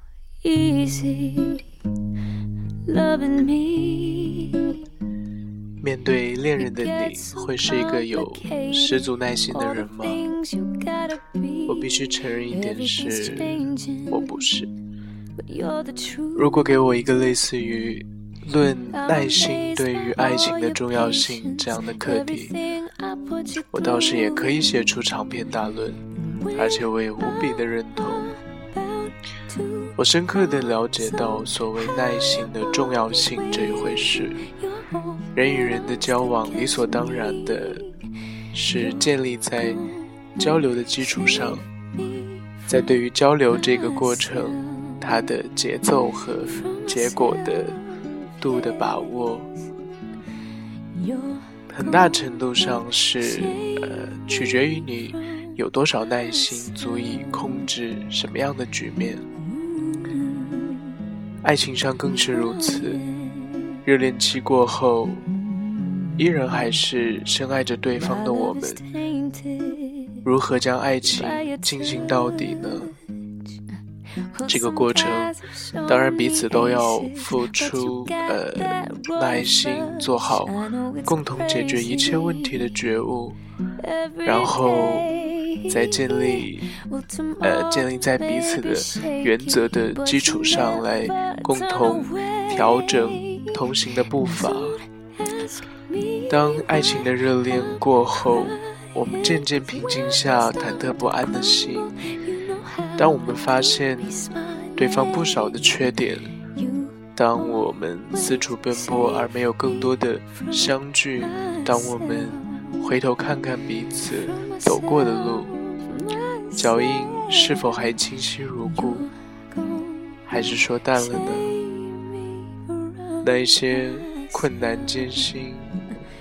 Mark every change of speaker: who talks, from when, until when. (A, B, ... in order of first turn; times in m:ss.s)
0:00.4-0:01.6 A
0:02.8-0:04.9 A
0:05.8-0:10.3 B
0:10.0-0:11.8 A
0:11.7-0:14.7 B
0:12.5-0:14.2 A
0:15.4-0:16.4 A
0:16.3-0:22.6 B
0:19.4-0:20.2 A
0:20.7-0:24.5 A
0:23.7-0:28.4 B
0:28.3-0:29.9 A
0:30.0-0:34.5 B
0:34.5-0:35.4 A
0:35.3-0:38.0 B
0:38.5-0:41.7 B
0:42.0-0:42.6 A
0:42.7-0:47.8 B
0:48.4-0:49.5 B
0:50.9-0:51.6 A
0:51.7-0:59.3 B
0:59.5-1:01.0 A
1:01.4-1:03.0 B
1:03.0-1:03.7 A
1:03.8-1:05.2 B
1:06.2-1:08.9 B
1:08.4-1:10.2 A
1:10.2-1:13.0 B
1:11.2-1:12.2 A
1:14.3-1:22.4 A
1:14.4-1:23.4 B
1:23.8-1:26.2 A
1:24.2-1:26.7 B
1:26.7-1:29.4 A
1:27.4-1:34.8 B
1:30.3-1:33.5 A
1:34.7-1:36.7 A
1:36.3-1:42.0 B
1:38.6-1:38.9 A
1:39.6-1:43.4 A
1:43.0-1:46.4 B
1:44.1-1:44.9 A
1:46.6-1:47.0 A
1:47.2-1:55.6 B
1:51.3-1:52.7 A
1:54.4-1:57.4 A
1:56.5-1:59.1 B
1:59.0-2:00.2 A
2:00.3-2:01.6 B
2:01.4-2:03.2 A
2:03.2-2:05.8 B